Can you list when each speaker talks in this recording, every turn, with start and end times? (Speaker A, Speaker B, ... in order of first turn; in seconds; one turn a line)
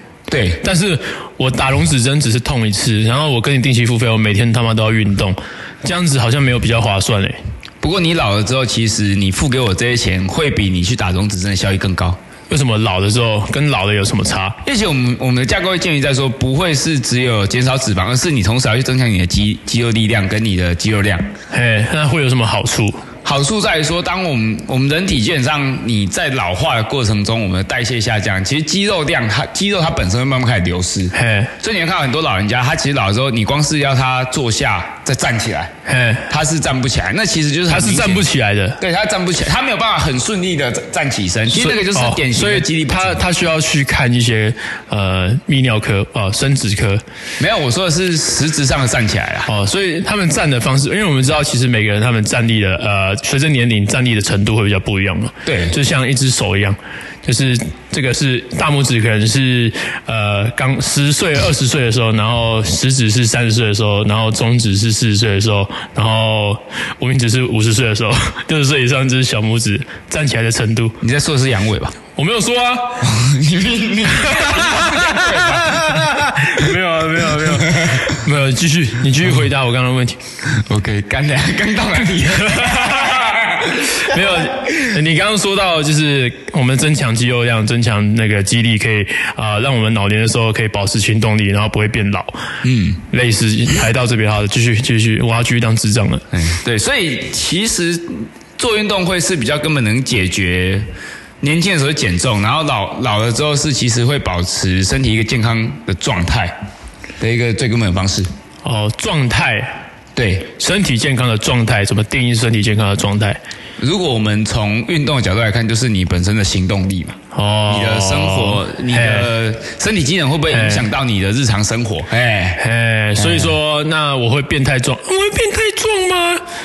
Speaker A: 0.3-0.6
Speaker B: 0.6-7.4
Speaker A: 7.8-12.2
Speaker B: 12.5-14.6
Speaker A: 14.6-21.3
Speaker B: 21.5-23.0
Speaker A: 23.2-35.7
Speaker B: 31.1-31.5
Speaker B: 35.9-36.3
Speaker A: 36.3-38.3
Speaker B: 37.7-38.8
Speaker A: 38.8-43.2
Speaker B: 41.5-47.0
Speaker A: 47.4-49.5
Speaker B: 49.5-71.0
Speaker A: 55.4-55.8
Speaker A: 71.0-71.9
Speaker B: 72.2-73.1
Speaker A: 73.0-76.7
Speaker B: 74.2-80.2
Speaker A: 77.4-78.1
Speaker A: 80.5-84.5
Speaker B: 82.5-83.1
Speaker B: 83.9-92.4
Speaker A: 92.6-93.0
Speaker B: 93.1-96.2
Speaker A: 96.3-100.9
Speaker A: 101.4-106.5
Speaker A: 107.2-108.3
Speaker B: 108.6-109.8
Speaker A: 110.2-110.5
Speaker B: 110.6-113.4
Speaker A: 113.8-117.2
Speaker B: 117.3-119.3
Speaker A: 117.7-122.6
Speaker B: 120.5-120.9
Speaker B: 122.6-126.4
Speaker A: 123.2-123.5